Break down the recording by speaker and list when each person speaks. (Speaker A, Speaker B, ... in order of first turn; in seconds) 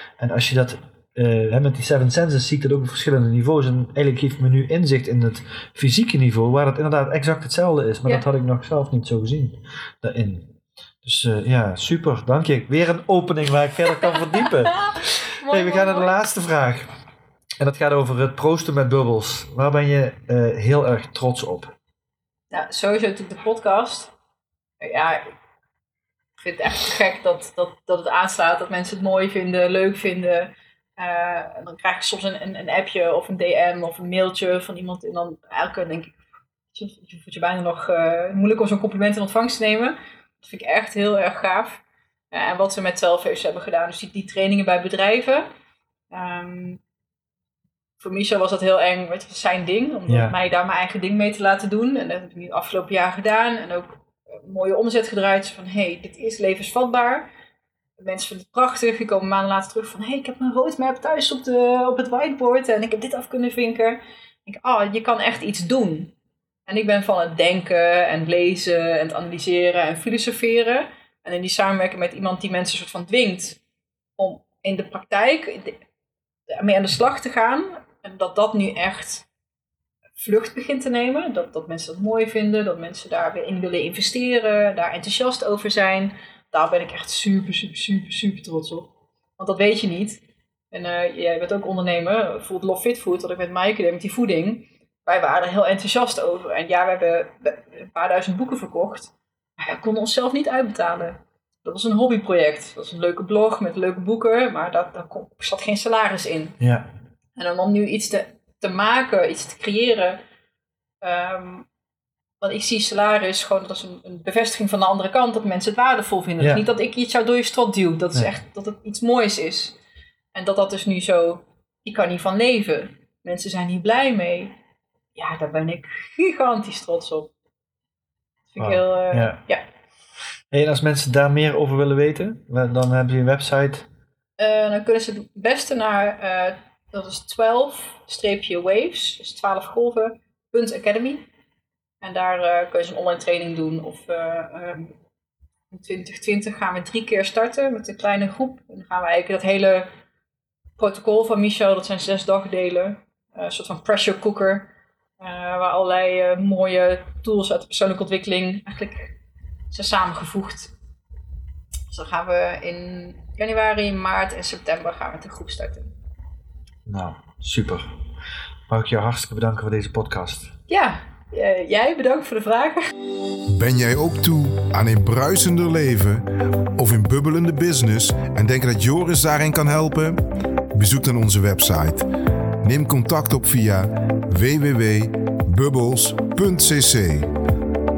Speaker A: 0.2-16.9, 17.6-21.7, 50.1-50.3, 106.6-106.9, 128.6-129.4, 130.5-133.9, 166.8-167.9, 168.7-170.5
Speaker B: 14.0-16.2, 22.5-24.1, 24.8-25.3, 26.4-36.2, 36.7-45.5, 46.1-46.8, 48.0-57.3, 58.0-66.1, 66.7-73.6, 74.2-75.8, 76.5-79.3, 80.2-106.6, 107.3-110.2, 111.0-111.7, 112.4-119.8, 120.3-124.6, 125.2-127.3, 128.5-129.6, 134.4-141.2, 142.0-144.9, 145.7-149.9, 150.8-154.7, 155.2-159.2, 159.7-160.7, 161.9-165.9, 170.7-172.8
Speaker C: 173.5-182.1, 182.6-187.3